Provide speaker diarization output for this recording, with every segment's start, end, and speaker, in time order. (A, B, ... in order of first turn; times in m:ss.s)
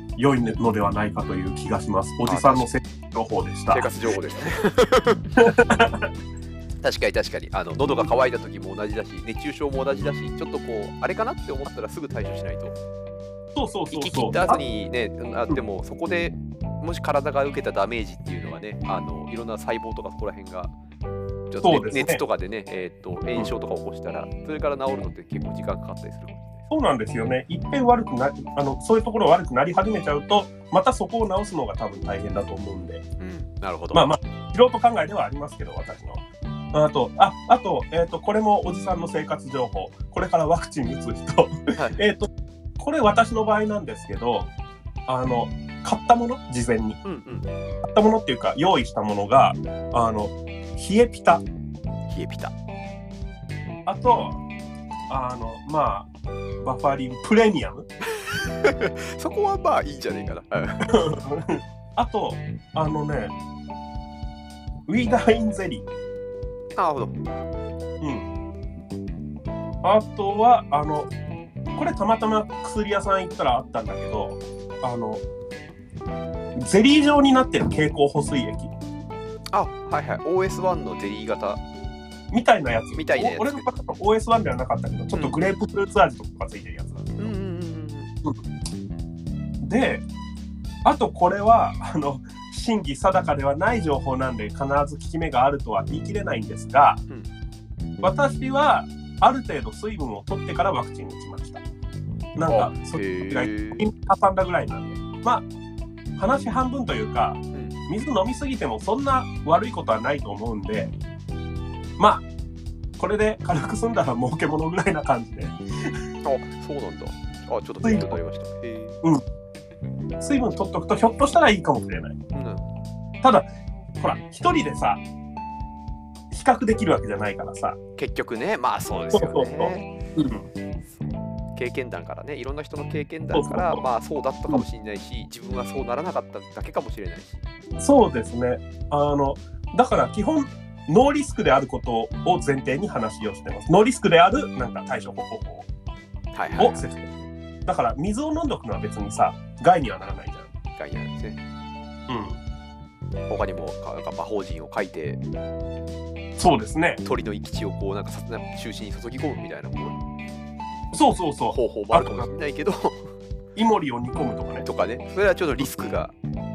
0:00.2-0:03.9 A
0:02.3-0:02.7 B
0:03.7-0:05.5 B
0:05.4-0:06.1 A
0:06.8-0:12.8 B
0:13.6-0:14.6 A
0:13.9-0:20.7 B
0:21.5-0:26.6 B
0:21.6-0:22.2 A
0:26.7-0:33.0 A
0:33.2-0:34.1 B
0:33.9-0:36.2 A
0:36.7-0:44.5 A
0:41.8-0:42.0 B
0:45.1-0:47.0 A
0:47.0-0:47.5 B
0:47.8-0:51.4 A
0:52.1-0:52.5 B
0:53.9-0:54.4 A
0:55.1-0:56.1 A
0:56.6-0:57.9 A
0:58.2-1:01.0 B
1:00.8-1:03.3 A
1:04.9-1:05.9 A
1:06.8-1:07.2 B
1:08.0-1:08.3 A
1:09.8-1:11.1 A
1:11.8-1:15.2 A
1:16.6-1:18.7 A
1:19.5-1:21.6 B
1:22.3-1:27.3 A
1:23.0-1:23.8 B
1:25.1-1:25.4 B
1:27.2-1:28.1 B
1:29.6-1:30.1 A
1:30.8-1:37.0 A
1:38.0-1:41.6 A
1:42.4-1:45.5 A
1:42.5-1:43.9 B
1:46.2-1:50.9 A
1:52.0-1:52.3 A
1:53.0-1:56.0 A
1:56.2-1:59.0 B
1:57.8-1:58.2 A
2:00.2-2:02.2 A
2:02.3-2:02.6 B
2:04.0-2:05.0 A
2:06.3-2:07.8 A
2:08.0-2:09.9 B
2:09.1-2:10.5 A
2:10.9-2:17.5 B
2:13.3-2:13.8 A
2:17.8-2:25.7 A
2:26.3-2:26.9 B
2:26.6-2:30.5 A
2:30.8-2:31.4 B
2:32.1-2:32.4 A
2:33.3-2:35.2 B
2:36.4-2:37.0 A
2:37.0-2:40.0 B
2:40.9-2:42.3 A
2:41.5-2:43.1 B
2:43.6-2:44.6 A
2:44.6-2:46.1 B